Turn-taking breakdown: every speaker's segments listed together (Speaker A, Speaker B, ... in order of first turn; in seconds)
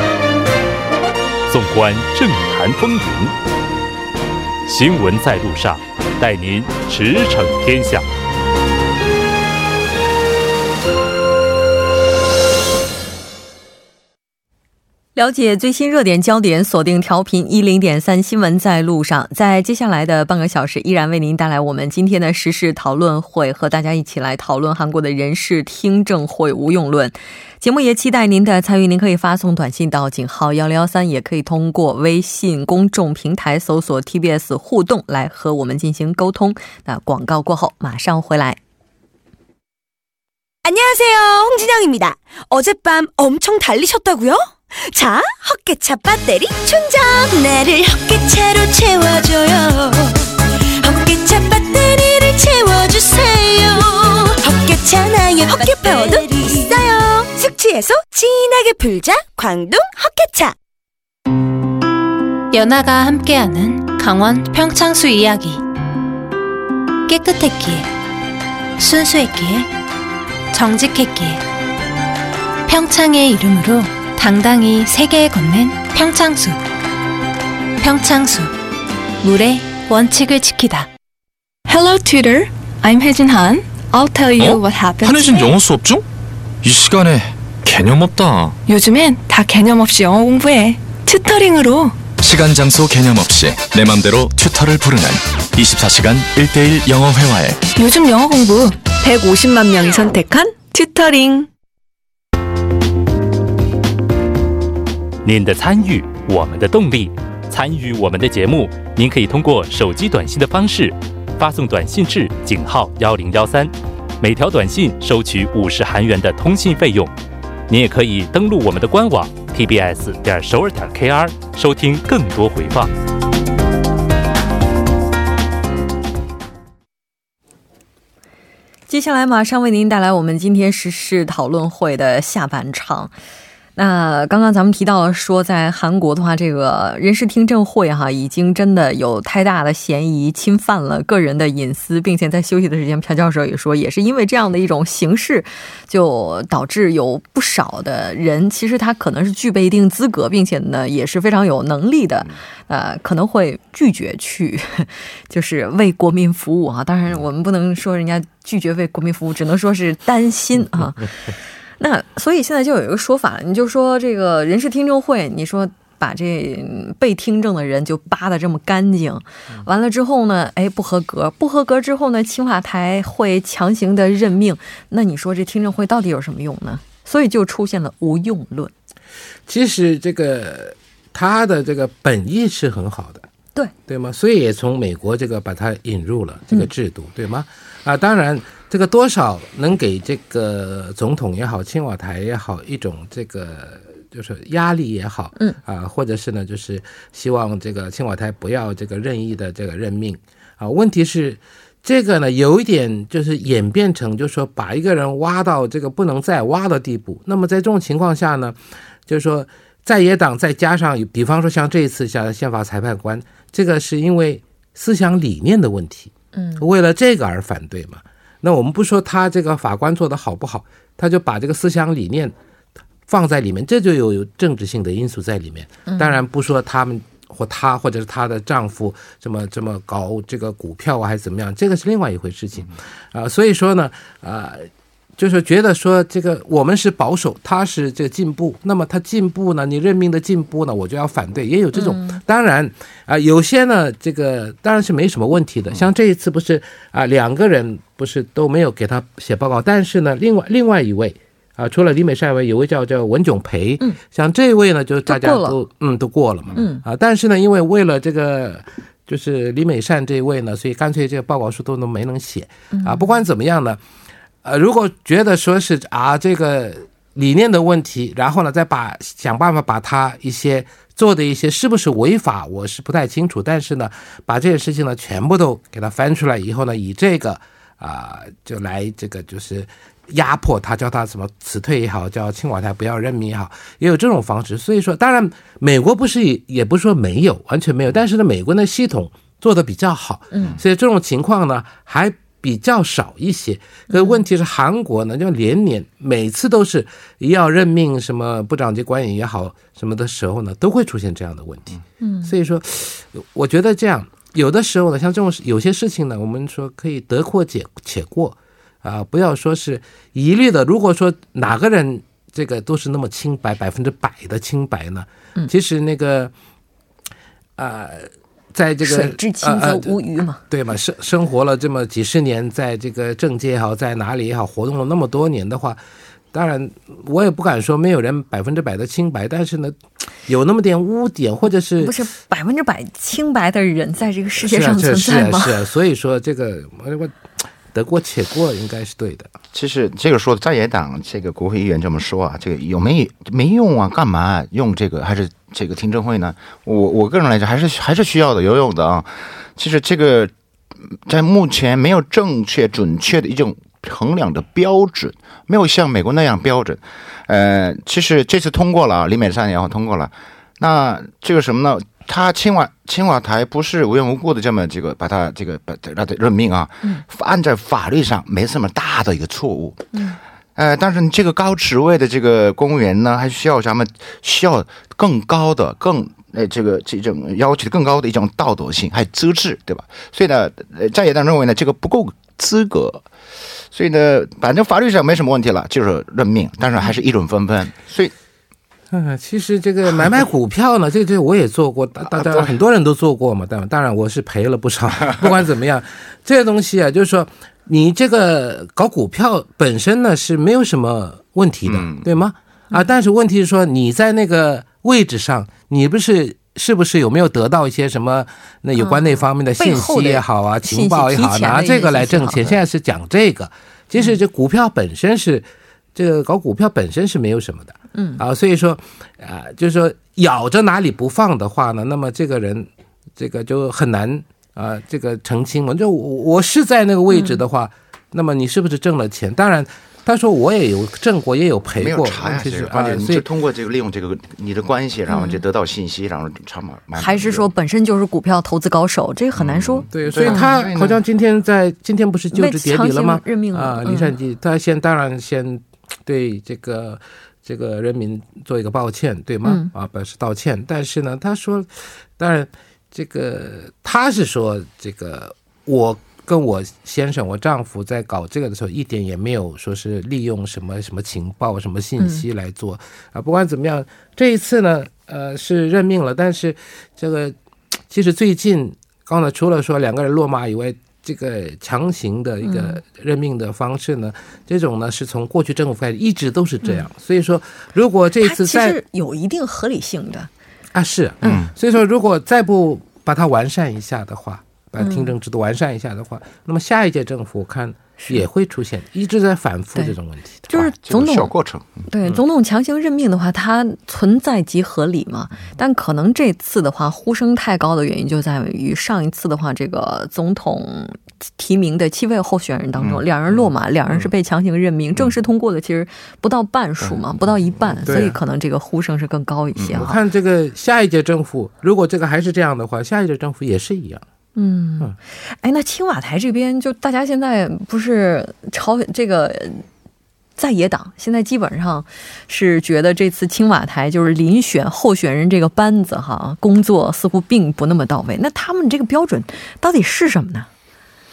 Speaker A: 1.5-3.4, 4.7-8.1, 105.2-117.1, 117.7-122.9
Speaker B: 15.2-38.6, 128.9-133.1, 133.8-161.1, 161.8-178.7, 216.3-216.6, 225.9-226.2, 241.8-242.2, 255.1-255.6, 256.6-256.8, 262.7-263.0, 293.9-294.2, 302.0-302.3, 318.8-320.4, 331.8-335.6, 369.9-370.2, 408.8-412.5, 417.9-418.2, 427.1-427.4, 435.1-435.4, 437.0-440.6, 442.3-444.1, 449.4-449.7, 472.4-472.8, 478.2-480.3, 484.8-485.1, 490.5-491.3, 491.9-510.0, 514.4-519.6, 520.4-530.5
Speaker C: 40.6-50.2, 50.8-60.5
Speaker D: 62.5-65.6, 67.1-67.9, 68.8-69.7, 70.5-71.4, 72.7-76.6, 77.8-78.5, 79.2-80.9
Speaker E: 81.7-85.5, 88.7-92.0, 97.8-101.5
Speaker F: 84.4-86.0, 86.6-88.6, 92.2-97.6
Speaker G: 179.5-183.3, 183.9-208.6, 209.1-222.3, 223.1-263.8, 264.4-316.3, 317.6-320.0, 320.5-325.8, 326.3-331.9, 334.4-337.2, 337.7-339.3, 388.9-433.2, 439.9-467.3, 467.9-478.8, 480.7-490.4, 507.9-508.2, 509.8-514.0
Speaker H: 339.5-350.3, 350.9-369.9, 370.6-383.0, 383.7-388.1, 392.2-392.5, 401.7-402.1, 431.8-437.5, 439.4-441.0, 481.2-481.5, 490.5-491.9, 502.8-503.0, 509.6-509.8